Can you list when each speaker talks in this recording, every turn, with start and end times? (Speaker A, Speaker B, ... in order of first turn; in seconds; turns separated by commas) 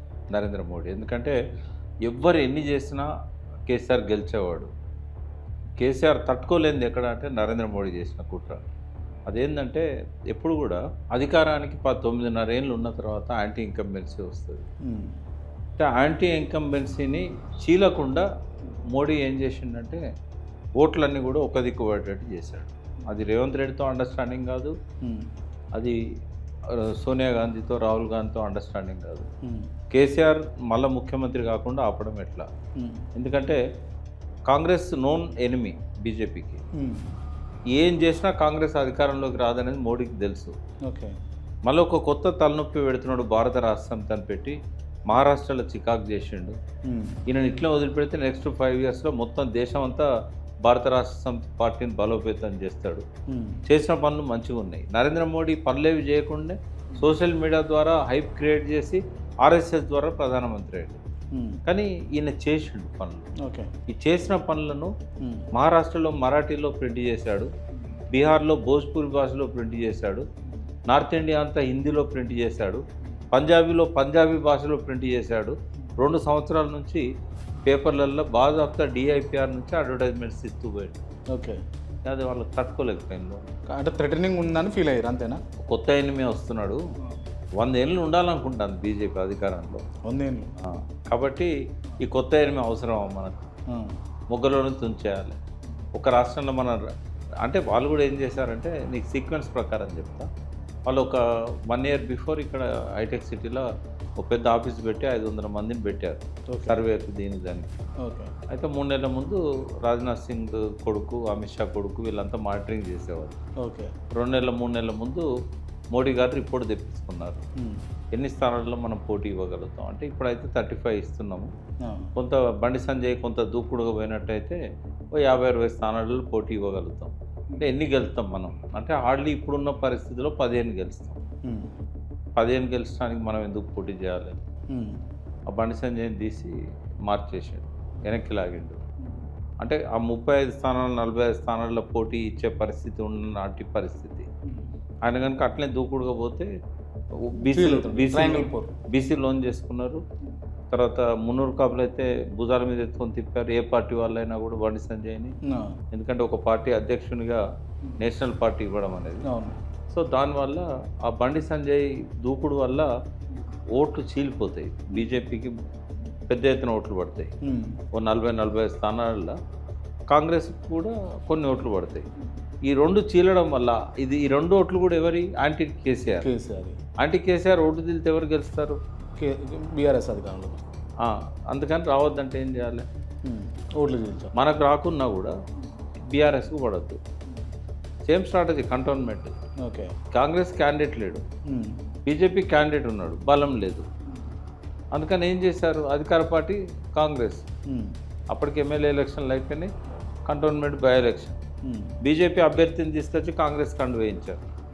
Speaker A: 0.3-1.4, Speaker A: 2.1-3.1, Speaker A: 3.7-4.7, Speaker A: 5.8-8.6, Speaker A: 9.3-14.7, Speaker B: 14.9-15.1, Speaker A: 15.8-18.3, Speaker A: 18.9-20.0, Speaker A: 20.8-24.8, Speaker A: 26.7-29.3, Speaker A: 29.9-32.5, Speaker B: 32.8-33.0, Speaker A: 33.1-33.6, Speaker A: 34.5-36.6, Speaker B: 36.8-37.0, Speaker A: 37.7-40.5, Speaker B: 40.9-41.1, Speaker A: 41.7-44.6, Speaker A: 45.1-46.6, Speaker B: 46.9-47.2, Speaker A: 47.3-50.1, Speaker A: 50.7-53.0, Speaker B: 53.3-53.6, Speaker A: 53.7-61.0, Speaker B: 61.4-61.6, Speaker A: 61.6-63.3, Speaker B: 63.4-63.7, Speaker A: 63.9-64.9, Speaker A: 65.5-67.5, Speaker A: 68.1-70.3, Speaker A: 70.9-72.8, Speaker A: 73.3-77.0, Speaker A: 77.7-81.0, Speaker B: 81.3-81.6, Speaker A: 82.1-83.4, Speaker B: 83.7-85.4, Speaker A: 85.6-86.8, Speaker A: 87.6-89.8, Speaker B: 90.1-90.5, Speaker A: 90.6-91.5, Speaker A: 92.0-93.3, Speaker A: 94.3-95.4, Speaker A: 96.0-96.8, Speaker A: 97.4-100.3, Speaker A: 100.9-103.7, Speaker A: 104.2-107.7, Speaker B: 106.5-106.8, Speaker B: 108.0-108.3, Speaker A: 108.5-113.4, Speaker B: 113.6-113.9, Speaker A: 114.2-115.3, Speaker A: 116.0-117.4, Speaker A: 118.1-121.5, Speaker B: 121.8-122.1, Speaker A: 122.2-124.6, Speaker A: 125.2-131.2, Speaker B: 131.5-131.7, Speaker A: 132.4-134.4, Speaker B: 134.7-135.0, Speaker A: 135.5-136.6, Speaker A: 137.1-138.8, Speaker A: 139.6-144.3, Speaker A: 145.1-146.5, Speaker A: 147.2-150.0, Speaker B: 147.4-148.7, Speaker A: 150.7-155.4, Speaker B: 155.5-155.8, Speaker A: 155.9-157.4, Speaker A: 158.0-159.2, Speaker B: 159.2-159.6, Speaker A: 159.9-162.9, Speaker A: 163.8-165.5, Speaker A: 166.3-167.3, Speaker B: 167.4-167.8, Speaker A: 167.9-169.3, Speaker A: 170.1-172.1, Speaker A: 172.7-176.3, Speaker B: 176.2-176.8, Speaker A: 177.0-178.8, Speaker B: 179.2-180.6, Speaker A: 181.0-182.9, Speaker B: 183.2-184.3, Speaker A: 184.3-185.3, Speaker A: 186.1-187.0, Speaker A: 188.1-189.3, Speaker B: 189.7-189.9, Speaker A: 190.1-191.2, Speaker B: 191.5-191.8, Speaker A: 192.1-193.9, Speaker A: 194.9-197.4, Speaker A: 198.3-199.7, Speaker A: 200.3-201.4, Speaker B: 201.7-201.9, Speaker A: 202.0-204.4